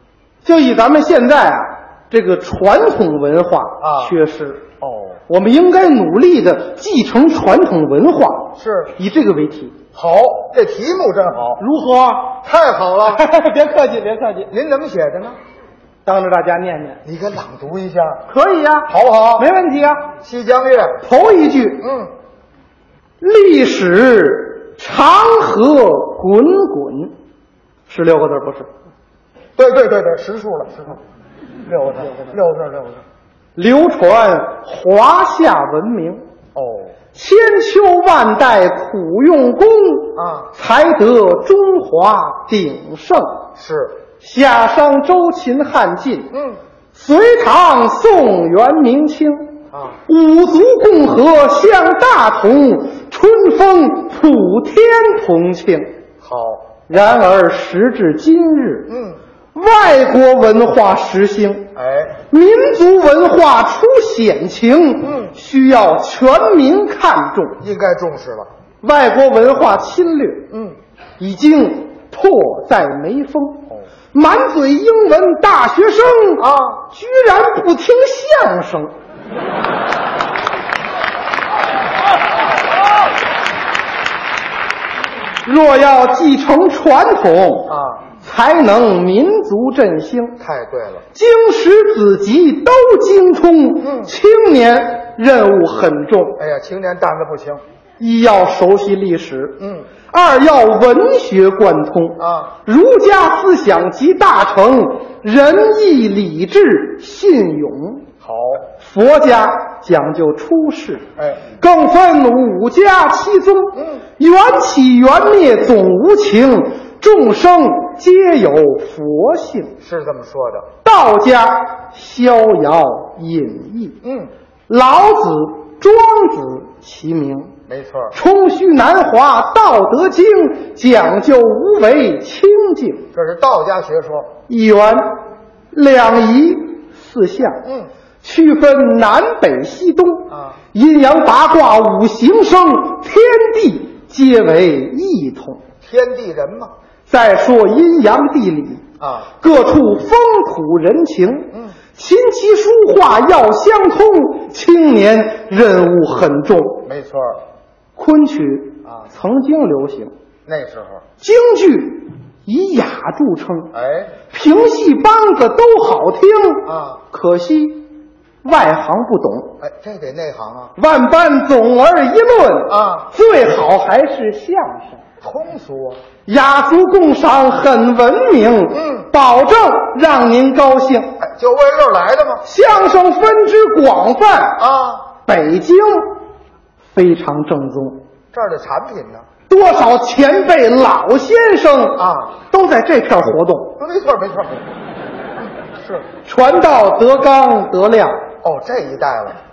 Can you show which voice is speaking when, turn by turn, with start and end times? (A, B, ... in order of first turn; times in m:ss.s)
0:00.4-0:04.6 A
0:03.8-0:04.2 B
0:04.8-0:05.2 B
0:05.3-0:09.8 A
0:08.6-0:08.9 B
0:09.9-0:11.6 B
0:11.6-0:12.4 A
0:12.4-0:13.2 B
0:13.1-0:14.5 A
0:14.5-0:15.4 B
0:16.0-0:17.0 A
0:17.0-0:18.2 B
0:18.3-0:20.1 A
0:18.9-0:19.5 B
0:20.2-0:21.0 B
0:21.0-0:21.8 A
0:21.8-0:22.1 B
0:23.2-0:27.2 A
0:27.9-0:28.7 A
0:29.6-0:31.0 B
0:31.7-0:33.0 B
0:33.6-0:36.2 A
0:36.6-0:37.0 B
0:37.1-0:43.5 A
0:40.2-0:40.5 B
0:43.6-0:44.0 B
0:44.2-0:46.3 A
0:46.3-0:46.6 B
0:46.9-0:55.9 A
0:49.7-0:50.0 B
0:56.2-0:56.7 B
0:56.9-0:58.9 A
0:58.9-0:59.2 B
0:59.5-1:01.7 A
1:01.8-1:02.2 B
1:02.2-1:07.6 A
1:05.0-1:05.3 B
1:07.6-1:08.5 B
1:08.8-1:10.5 A
1:10.5-1:10.8 B
1:11.2-1:18.9 A
1:16.4-1:16.8 B
1:25.4-1:30.4 A
1:27.7-1:28.0 B
1:30.4-1:31.0 B
1:31.1-1:36.4 A
1:33.8-1:34.1 B
1:36.4-1:37.6 B
1:38.0-1:48.1 A
1:39.6-1:39.9 B
1:42.2-1:42.5 B
1:48.2-1:48.7 B
1:48.8-1:59.8 A
1:51.2-1:51.4 B
1:53.8-1:54.0 B
1:59.8-2:00.7 B
2:00.8-2:04.0 A
2:04.0-2:04.3 B
2:04.7-2:07.6 A
2:07.7-2:08.2 B
2:08.1-2:13.1 A
2:13.1-2:14.3 B
2:14.5-2:17.6 A
2:17.6-2:17.9 B
2:18.2-2:25.6 A
2:20.3-2:20.6 B
2:25.8-2:26.7 B
2:27.1-2:28.9 A
2:29.0-2:29.3 B
2:29.4-2:36.8 A
2:36.9-2:37.4 B
2:38.0-2:40.1 A
2:40.5-2:41.0 B
2:41.2-2:43.7 A
2:43.7-2:44.1 B
2:44.3-2:49.6 A
2:46.6-2:47.0 B
2:49.6-2:50.8 B
2:50.8-2:55.0 A
2:52.7-2:53.1 B
2:55.2-2:56.0 B
2:56.3-3:01.2 A
2:58.7-2:59.1 B
3:01.2-3:02.4 B
3:02.4-3:04.6 A
3:04.6-3:05.1 B
3:05.2-3:06.2 A
3:06.9-3:08.0 A
3:08.3-3:09.3 B
3:09.5-3:13.8 A
3:12.0-3:12.4 B
3:13.8-3:14.7 B
3:16.2-3:18.2 A
3:18.4-3:19.4 B